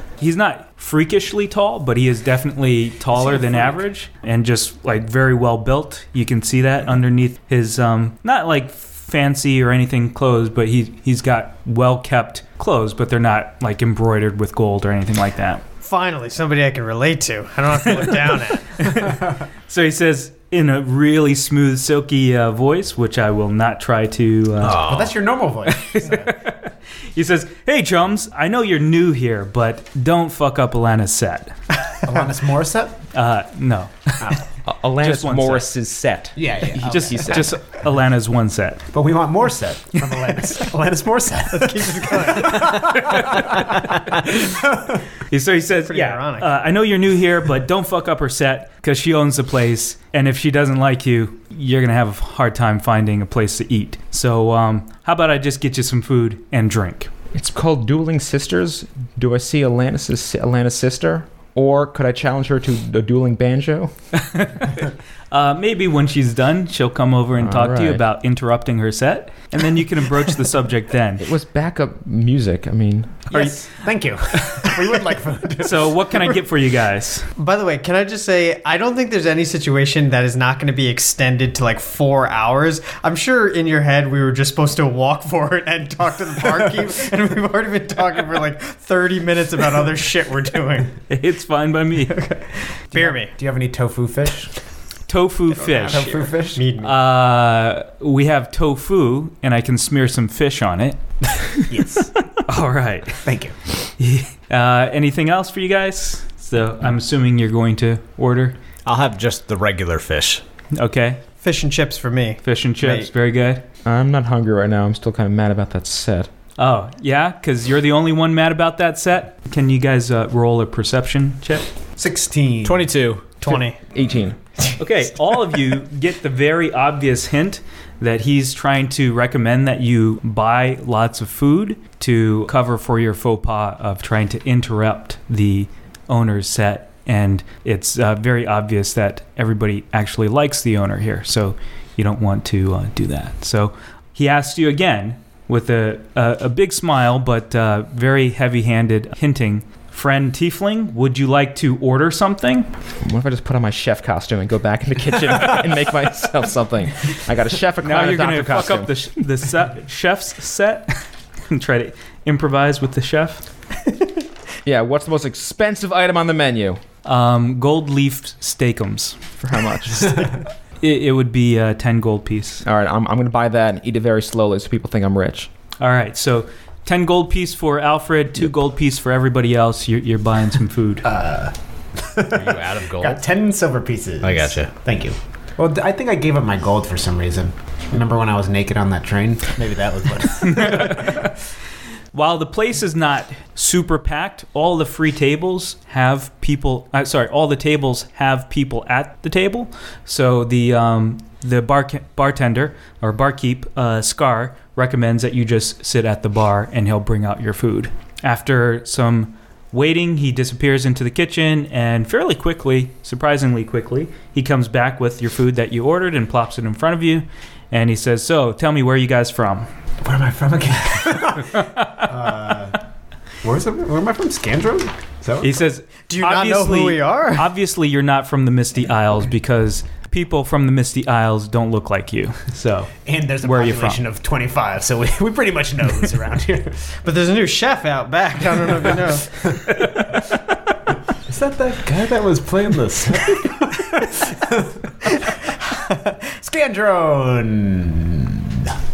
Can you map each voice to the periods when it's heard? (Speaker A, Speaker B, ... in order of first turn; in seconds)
Speaker A: 0.2-15.6, 18.8-19.1, 19.7-24.9, 25.7-31.7, 33.1-34.3, 35.0-35.8, 36.7-38.9, 45.3-57.1, 64.2-71.2, 73.3-73.8, 75.6-77.3, 91.1-92.3, 95.1-96.2, 96.8-101.6, 102.4-103.3, 103.8-108.6, 110.7-111.2, 112.4-113.6, 116.6-121.7, 124.8-152.7, 157.8-163.7, 167.0-169.3, 170.8-172.6, 175.8-181.0, 190.5-191.3, 192.1-219.7, 225.4-234.0
Speaker B: 3.3-3.7, 24.6-26.3, 32.0-33.0, 36.4-37.3, 38.9-43.4, 44.5-44.8, 73.3-76.3, 92.9-94.5, 95.8-96.6, 101.7-102.1, 103.2-103.5, 122.0-122.9, 181.0-191.1, 220.0-222.8, 223.4-225.5, 233.0-237.0, 241.2-244.9, 246.3-248.8
Speaker C: 15.8-19.1, 41.5-42.9, 45.9-46.5, 77.3-91.0, 92.1-93.3, 95.5-96.9, 111.4-113.1, 123.4-123.8, 226.1-227.5, 237.0-239.5, 245.7-246.1
Speaker D: 24.6-25.1, 108.8-110.4, 122.6-123.4, 182.3-183.2, 184.2-184.7
Speaker E: 34.6-37.6, 57.3-63.9, 67.4-68.0, 71.2-73.2, 113.8-116.3, 123.9-124.4, 153.0-158.9, 164.6-166.8, 169.4-170.3, 172.6-175.5